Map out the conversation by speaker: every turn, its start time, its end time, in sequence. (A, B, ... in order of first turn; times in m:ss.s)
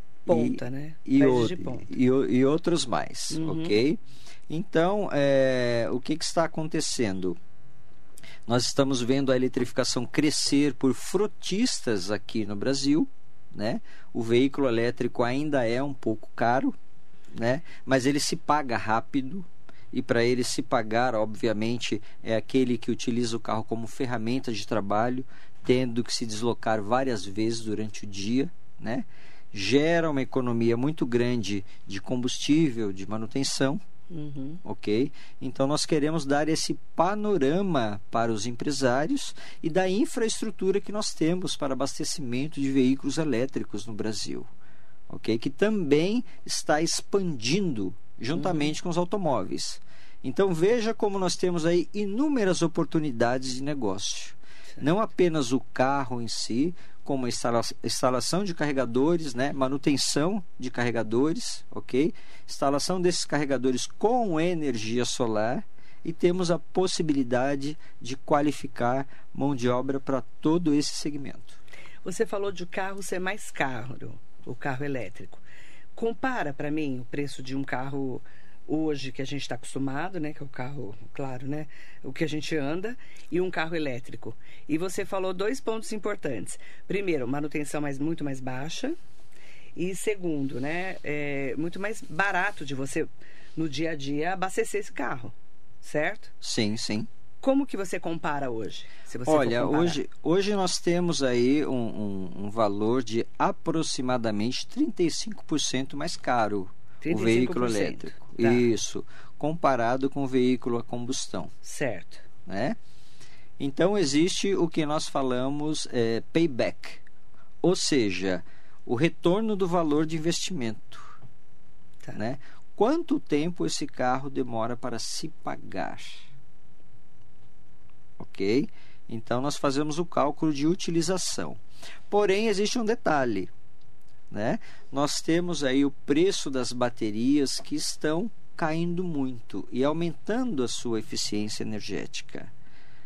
0:00.3-0:01.9 A
0:00.3-0:07.4 B
0:03.3-0:03.8 A
0:08.5-0:16.8 B
0:17.3-0:33.8 B
0:34.1-0:34.6 A
0:34.6-0:44.5 B
0:45.1-1:11.6 B
0:48.3-0:48.7 A
1:12.0-1:15.4 A
1:16.0-1:29.0 A
1:29.8-1:36.3 A
1:36.4-1:37.1 B
1:37.4-1:40.0 A
1:39.3-1:51.5 B
1:47.0-1:48.7 A
1:51.6-1:52.2 A
1:52.5-1:52.8 B
1:53.6-1:57.0 B
1:57.6-2:01.2 B
2:02.2-2:06.3 B
2:08.2-2:13.5 B
2:14.3-2:22.5 B